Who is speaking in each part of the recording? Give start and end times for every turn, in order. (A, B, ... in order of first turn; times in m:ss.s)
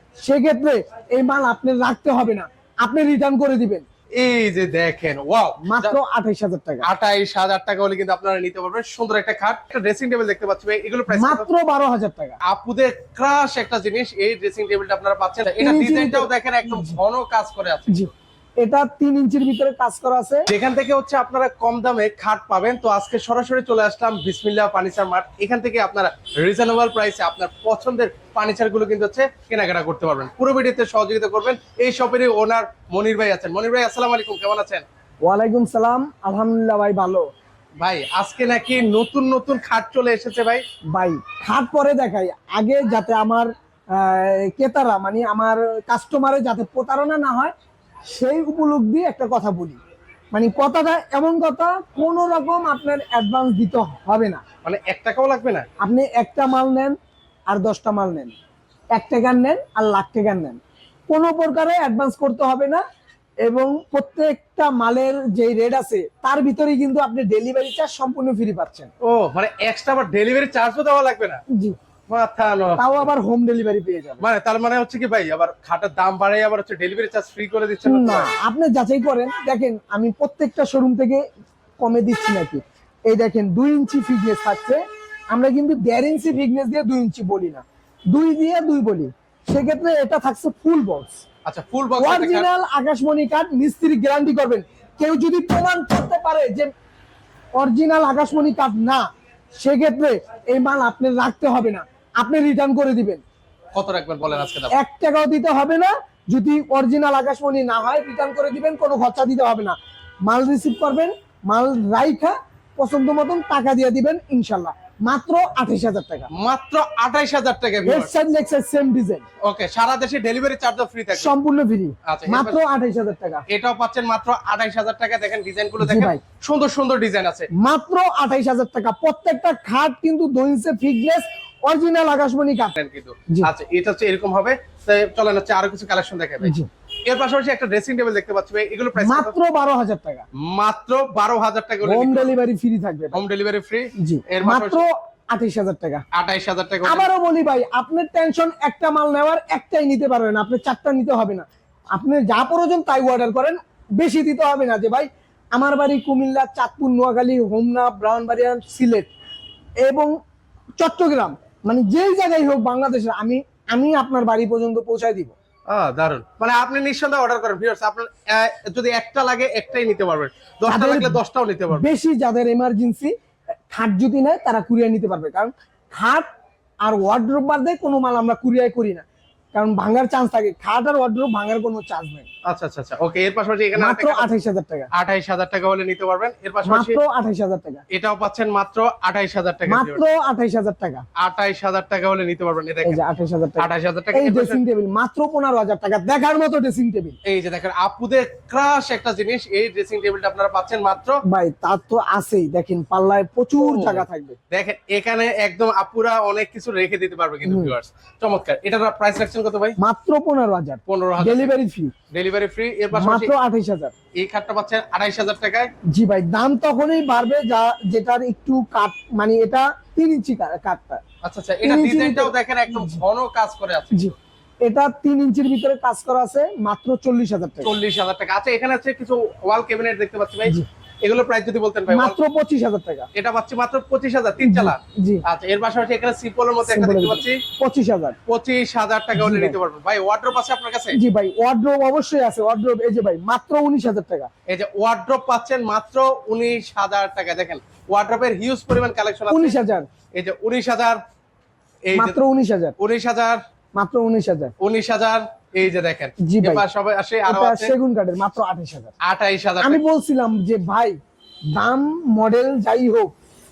0:00.2-0:03.8 A
0:04.1-0:05.9 B
0:05.6-0:06.9 A
0:06.8-0:11.4 B
0:11.1-0:12.4 A
0:12.4-0:18.0 B
0:15.6-0:17.0 A
0:17.9-0:20.5 A
0:20.5-0:34.8 B
0:35.2-0:37.2 A
0:37.8-0:40.6 B
0:40.9-0:47.5 A
0:48.1-0:49.8 A
0:50.3-0:54.4 A
0:54.6-0:55.6 B
0:55.8-0:56.9 A
0:57.5-0:58.3 A
0:58.9-1:02.8 A
1:03.4-1:08.9 A
1:09.0-1:11.4 B
1:12.1-1:13.1 B
1:12.8-1:14.2 A
1:14.2-1:18.3 B
1:17.8-1:21.2 A
1:21.8-1:31.2 A
1:31.4-1:32.5 B
1:32.0-1:36.7 A
1:37.6-1:43.2 A
1:43.7-1:44.7 B
1:44.7-1:56.3 A
1:56.3-1:58.1 B
1:57.8-1:59.2 A
1:59.4-2:01.3 B
2:01.1-2:03.4 A
2:02.0-2:02.6 B
2:03.5-2:07.5 B
2:05.8-2:06.2 A
2:07.5-2:12.7 A
2:12.8-2:16.5 B
2:16.4-2:16.7 A
2:17.0-2:19.3 B
2:19.0-2:20.2 A
2:20.4-2:22.3 B
2:21.8-2:23.2 A
2:23.1-2:24.8 B
2:24.0-2:26.0 A
2:26.1-2:27.1 B
2:26.8-2:39.1 A
2:39.8-2:40.1 A
2:40.8-2:45.3 A
2:45.7-2:51.9 B
2:50.7-2:53.1 A
2:53.7-2:56.3 A
2:56.8-3:02.3 A
3:02.4-3:04.3 B
3:03.8-3:04.9 A
3:04.9-3:07.0 B
3:06.6-3:07.8 A
3:07.9-3:10.0 B
3:09.7-3:11.0 A
3:11.2-3:13.0 B
3:12.8-3:17.2 A
3:13.6-3:14.6 B
3:17.2-3:21.2 B
3:21.3-3:24.4 A
3:23.6-3:29.8 B
3:27.4-3:27.7 A
3:29.8-3:31.9 A
3:30.9-3:31.5 B
3:32.1-3:33.3 B
3:32.9-3:33.9 A
3:34.2-3:35.7 B
3:35.9-3:41.0 A
3:41.2-3:44.1 B
3:41.6-3:43.0 A
3:43.9-3:47.7 A
3:47.6-3:52.2 B
3:51.9-3:53.1 A
3:53.1-3:57.4 B
3:54.4-3:55.2 A
3:56.6-3:58.2 A
3:58.3-4:01.0 B
3:59.1-3:59.6 A
4:00.9-4:04.3 A
4:04.5-4:09.6 B
4:09.3-4:09.9 A
4:10.1-4:11.0 B
4:11.8-4:12.2 B
4:11.9-4:12.8 A
4:12.8-4:13.4 B
4:13.7-4:14.5 A
4:14.6-4:17.7 B
4:16.2-4:16.6 A
4:17.2-4:18.9 A
4:19.0-4:19.8 B
4:19.6-4:21.0 A
4:21.5-4:23.1 A